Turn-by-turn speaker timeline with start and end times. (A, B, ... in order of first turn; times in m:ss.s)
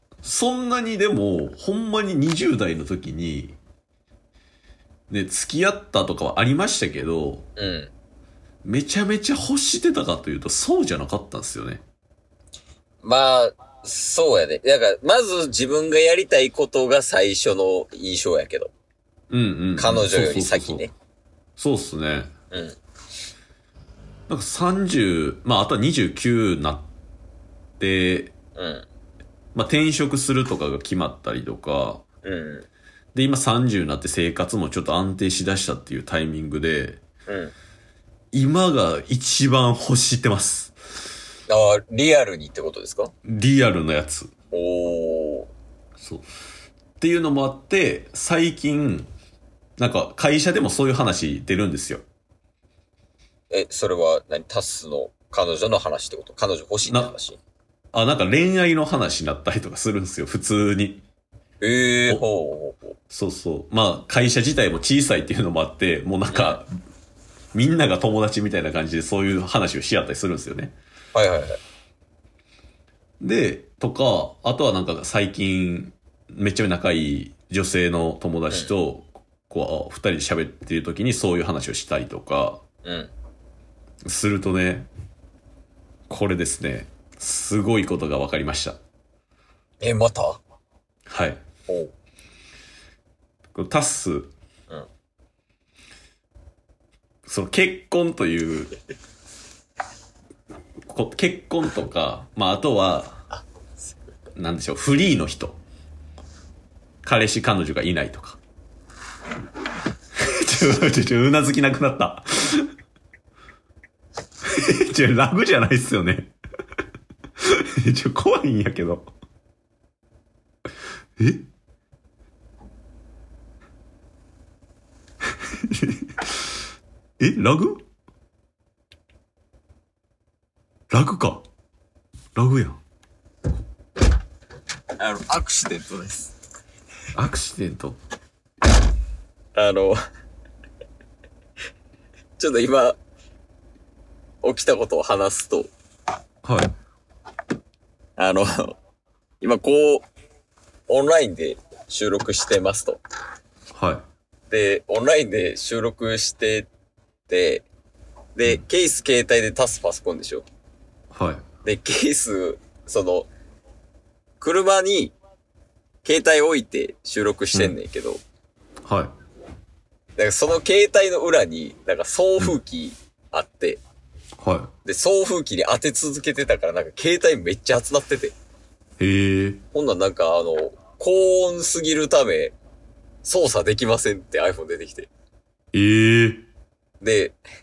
0:00.2-0:03.6 A
0:05.1-0:07.4 A
0:07.6-0:07.9 B
0:08.6-0:11.8 A
0:13.0-0:18.7 B
0:19.3-0:20.9 A
0:19.8-0:20.9 B
0:21.6-0:22.3 A
0:22.5-0:22.8 B
0:24.3-0:26.9 A
0:27.8-0:28.3 A
0:28.6-0:28.9 B
0:29.5-0:32.0 A
0:32.2-0:32.7 B
0:33.1-0:37.0 A
0:37.3-0:37.5 B
0:38.3-0:40.7 A
0:41.5-0:43.1 B
0:43.2-0:44.3 A
0:44.5-0:45.5 B
0:46.0-0:46.2 A
0:47.0-0:49.1 A
0:49.8-0:52.0 A
0:53.5-0:57.4 B
0:56.9-0:57.1 A
0:57.9-1:01.0 A
1:01.6-1:02.9 B
1:03.1-1:06.7 A
1:06.3-1:06.6 B
1:07.5-1:10.7 A
1:11.1-1:11.6 B
1:13.2-1:22.6 A
1:22.8-1:23.1 B
1:24.0-1:24.9 A
1:26.1-1:28.8 A
1:29.8-1:30.4 B
1:31.1-1:31.4 A
1:31.7-1:31.9 B
1:33.5-1:34.3 A
1:37.2-1:38.7 A
1:40.9-1:43.2 A
1:44.4-1:45.6 A
1:47.0-1:48.4 A
1:50.2-1:52.7 A
1:54.4-1:56.3 A
1:57.4-1:59.1 A
2:01.2-2:01.5 A
2:05.4-2:06.4 A
2:07.2-2:07.8 A
2:10.9-2:11.4 A
2:12.4-2:12.8 A
2:15.0-2:16.3 B
2:17.1-2:18.0 A
2:19.5-2:20.0 B
2:22.4-2:23.0 B
2:24.4-2:25.7 B
2:26.4-2:26.7 A
2:28.2-2:28.8 B
2:29.4-2:30.0 B
2:30.9-2:33.0 B
2:33.7-2:34.0 A
2:34.5-2:36.7 B
2:37.3-2:37.6 B
2:38.3-2:40.4 B
2:41.1-2:41.4 A
2:41.6-2:43.3 B
2:44.4-2:45.1 B
2:46.0-2:48.2 B
2:48.8-2:49.1 A
2:50.2-2:53.8 B
2:54.4-2:54.7 A
2:54.8-2:58.3 B
2:59.0-2:59.6 A
2:59.7-3:02.5 B
3:03.2-3:05.1 B
3:05.7-3:06.4 A
3:07.0-3:07.4 B